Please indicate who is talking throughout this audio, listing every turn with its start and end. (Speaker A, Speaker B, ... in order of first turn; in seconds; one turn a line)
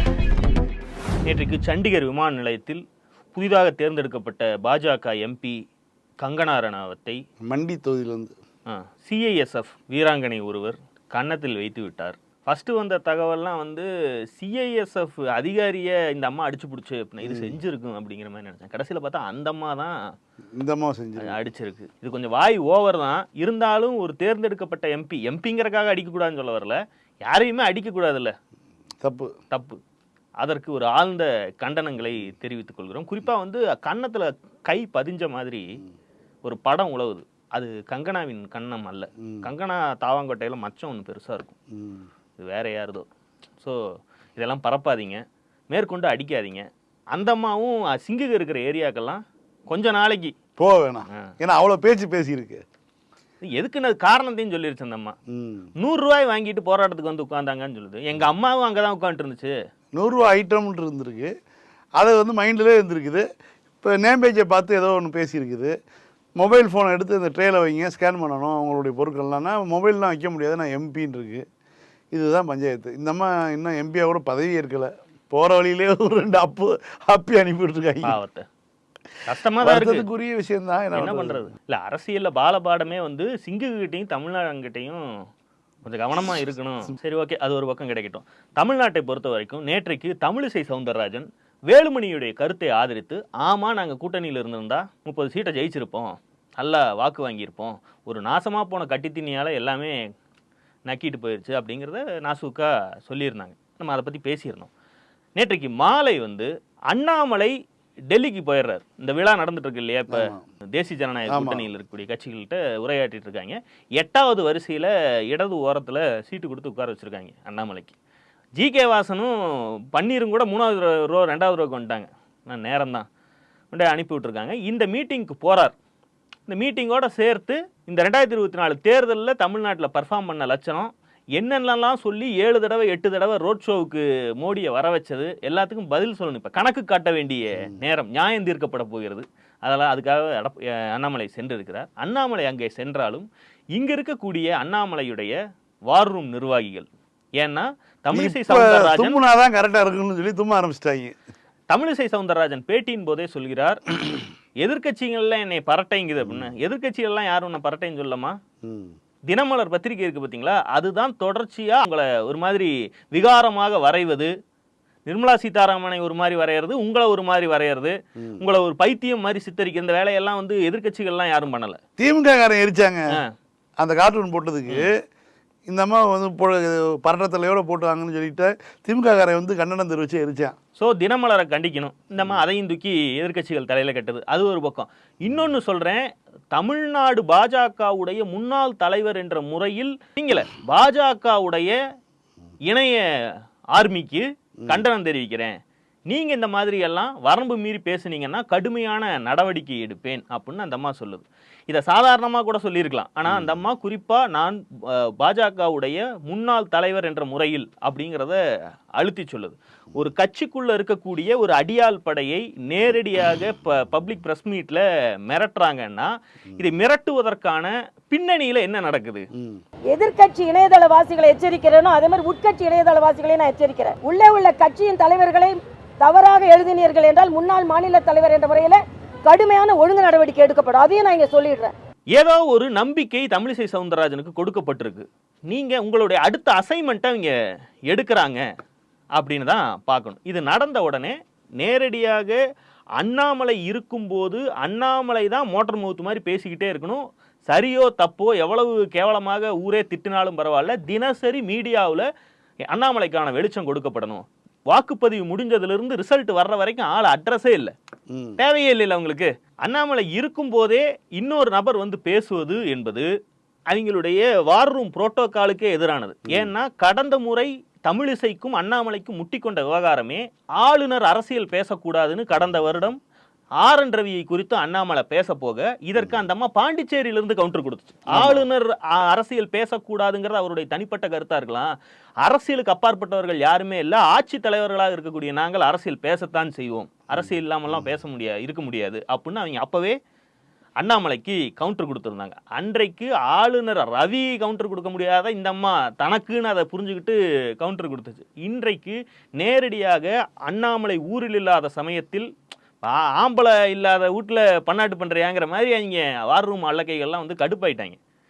Speaker A: 1.3-2.8
Speaker A: 3.3-5.6
Speaker A: 6.2-7.2
Speaker B: 7.4-8.3
Speaker A: 8.7-20.0
Speaker B: 17.2-17.6
Speaker B: 20.6-21.4
Speaker A: 21.2-28.3
Speaker B: 29.0-29.3
Speaker A: 29.5-29.8
Speaker A: 30.4-35.7
Speaker A: 36.4-41.5
Speaker B: 39.2-39.5
Speaker B: 41.7-42.1
Speaker A: 42.4-43.1
Speaker A: 44.4-50.3
Speaker B: 50.6-52.6
Speaker A: 53.5-55.2
Speaker B: 55.3-55.7
Speaker A: 55.8-59.5
Speaker B: 60.0-61.3
Speaker B: 62.0-63.2
Speaker B: 63.8-65.8
Speaker B: 66.4-71.5
Speaker B: 72.1-78.2
Speaker A: 78.0-78.5
Speaker A: 79.3-80.0
Speaker B: 79.6-81.5
Speaker A: 81.0-85.0
Speaker A: 85.8-100.0
Speaker A: 100.9-104.7
Speaker A: 105.4-107.5
Speaker A: 108.1-118.0
Speaker B: 110.1-110.4
Speaker B: 111.3-111.7
Speaker A: 118.6-119.3
Speaker A: 119.9-123.1
Speaker A: 123.7-125.8
Speaker A: 126.5-145.3
Speaker A: 145.9-146.9
Speaker A: 147.4-149.2
Speaker B: 148.1-151.2
Speaker A: 151.7-153.8
Speaker A: 154.6-158.4
Speaker B: 156.2-156.5
Speaker B: 158.6-159.0
Speaker A: 159.3-164.3
Speaker A: 165.1-171.8
Speaker B: 168.2-168.4
Speaker B: 172.0-173.2
Speaker B: 173.8-175.0
Speaker B: 175.7-180.6
Speaker A: 180.8-186.0
Speaker A: 186.5-191.8
Speaker A: 192.7-193.0
Speaker A: 193.7-195.6
Speaker A: 196.1-208.4
Speaker B: 203.3-203.6
Speaker A: 209.0-219.3
Speaker B: 219.3-219.6
Speaker C: 219.9-231.7
Speaker A: 232.2-237.3
Speaker A: 237.9-238.4
Speaker A: 239.2-242.4
Speaker A: 243.0-252.1
Speaker A: 252.7-257.7
Speaker B: 258.1-258.4
Speaker A: 258.4-263.1
Speaker A: 263.7-273.0
Speaker B: 266.3-266.5
Speaker A: 273.6-281.7
Speaker B: 278.1-278.4
Speaker A: 282.2-290.0
Speaker B: 287.1-287.9
Speaker A: 290.8-302.3
Speaker A: 302.8-308.0